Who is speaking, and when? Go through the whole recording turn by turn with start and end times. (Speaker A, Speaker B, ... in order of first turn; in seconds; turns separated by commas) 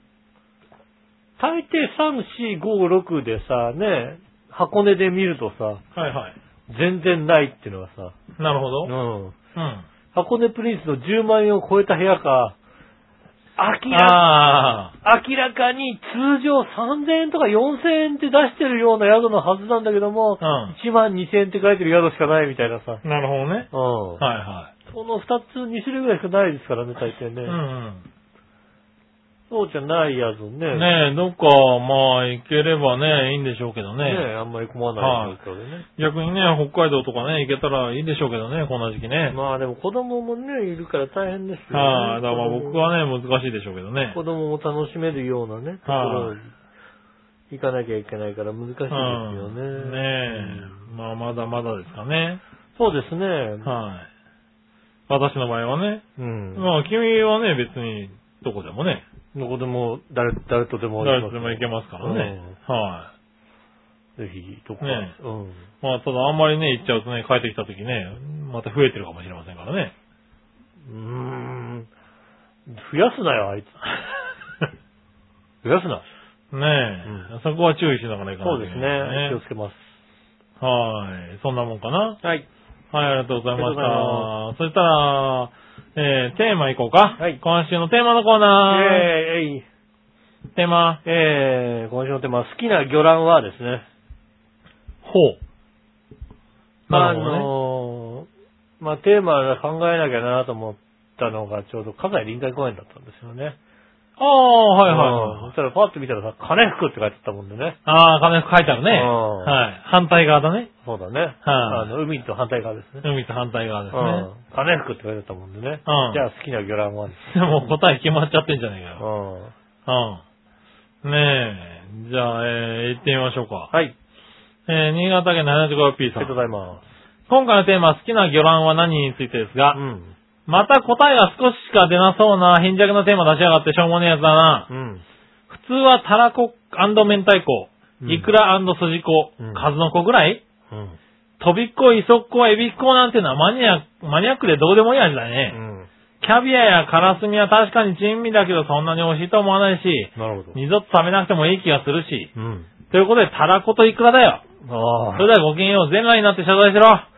Speaker A: 1.4-5.8, Speaker B: 6.0-6.3, Speaker A: 6.7-8.2, Speaker B: 8.4-8.9, Speaker A: 8.8-9.4, Speaker B: 9.6-9.8, Speaker A: 10.1-12.6, Speaker A: 13.6-14.2, Speaker B: 13.9-14.9, Speaker A: 15.0-23.0, Speaker B: 20.4-20.8, Speaker B: 23.0-24.7, Speaker A: 23.7-24.2, Speaker A: 24.9-27.6, Speaker B: 27.5-28.0, Speaker A: 29.5-30.9, Speaker B: 30.7-34.2, Speaker A: 34.0-35.9, Speaker B: 35.0-35.4, Speaker B: 36.0-39.4, Speaker A: 39.3-42.9, Speaker B: 41.7-44.2, Speaker A: 44.1-46.5, Speaker B: 45.9-46.4, Speaker A: 47.5-50.8, Speaker B: 48.9-52.4, Speaker A: 52.8-53.7, Speaker B: 53.6-54.1, Speaker B: 55.1-56.0, Speaker A: 56.2-56.7, Speaker B: 56.6-59.0, Speaker A: 59.3-62.6, Speaker B: 61.0-63.1, Speaker A: 64.2-65.7, Speaker B: 64.8-65.1, Speaker B: 65.8-69.9, Speaker A: 70.9-71.9, Speaker A: 72.7-73.8, Speaker A: 75.6-76.0, Speaker B: 76.5-79.4, Speaker A: 77.0-77.3, Speaker A: 78.4-79.8, Speaker B: 80.6-82.2, Speaker B: 82.9-89.1, Speaker A: 83.5-84.3, Speaker A: 88.7-89.6, Speaker B: 90.5-91.0, Speaker A: 91.0-93.9, Speaker B: 95.0-95.4, Speaker B: 96.9-97.5, Speaker A: 96.9-98.3, Speaker A: 98.8-103.6, Speaker B: 104.2-105.5, Speaker A: 104.9-107.8, Speaker B: 107.9-110.7, Speaker A: 108.9-109.6, Speaker A: 110.8-113.0, Speaker B: 111.5-111.9, Speaker B: 113.0-114.3, Speaker A: 113.9-117.7, Speaker B: 115.9-116.2, Speaker B: 117.3-119.0, Speaker A: 119.0-119.5, Speaker B: 119.9-120.2, Speaker B: 121.0-123.7, Speaker B: 124.7-126.3, Speaker A: 126.2-126.8, Speaker B: 127.3-129.8, Speaker A: 129.7-130.2, Speaker B: 130.5-134.7, Speaker A: 134.7-135.0, Speaker B: 135.5-140.4, Speaker A: 138.0-138.3, Speaker A: 139.4-139.7, Speaker A: 140.7-141.0, Speaker B: 141.4-145.6, Speaker A: 145.5-145.9, Speaker B: 146.2-152.3, Speaker A: 150.2-150.6, Speaker A: 152.4-152.7, Speaker B: 152.9-154.4, Speaker A: 154.6-155.3, Speaker B: 155.2-157.1